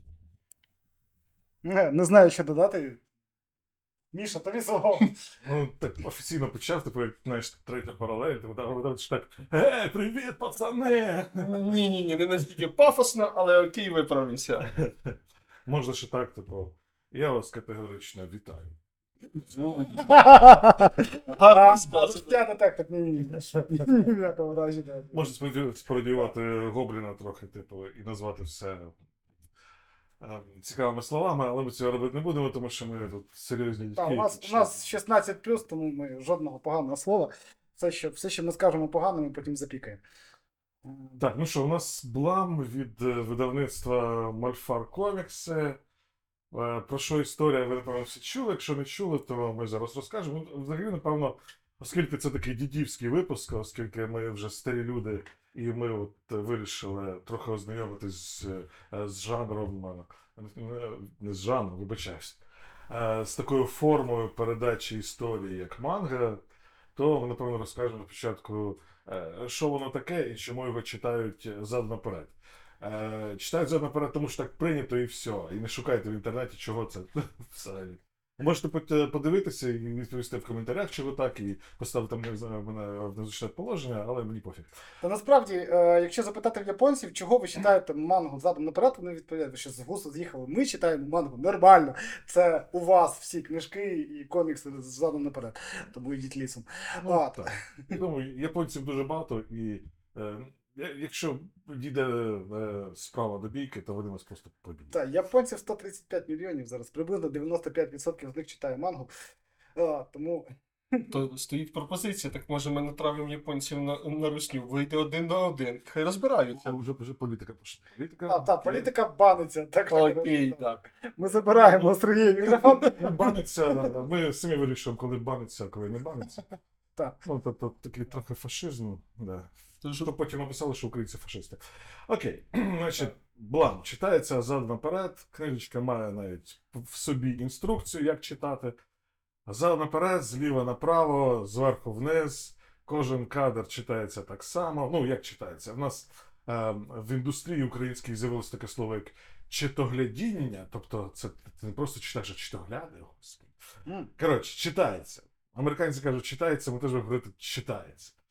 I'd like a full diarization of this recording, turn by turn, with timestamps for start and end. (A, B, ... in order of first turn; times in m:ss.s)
0:01.6-0:03.0 A
0:04.1-0:05.1 A
0:05.4-0:11.5 B
0:11.4-0:14.7 C
0:14.7-0:18.8 B
0:19.5-0:20.4 C
0:20.0-0:25.3 A
0:21.2-0:22.4 C
0:25.1-0:29.0 B
0:30.2-0:34.8 B
0:34.0-0:40.0 A
0:40.8-0:41.2 A
0:41.2-0:45.8 B
0:46.5-1:06.4 B
1:07.0-1:24.7 B
1:25.0-1:38.0 A
1:37.0-1:45.0 B
1:44.9-1:49.1 A
1:49.8-1:51.1 A
1:51.1-1:56.8 C
1:56.5-1:58.9 B
1:58.3-2:03.9 A
1:59.9-2:00.8 C
2:01.5-2:02.9 C
2:03.0-2:06.4 B
2:07.2-2:18.8 B
2:09.8-2:10.1 C
2:19.5-2:33.6 B
2:33.9-2:34.1 A
2:34.2-2:38.2 B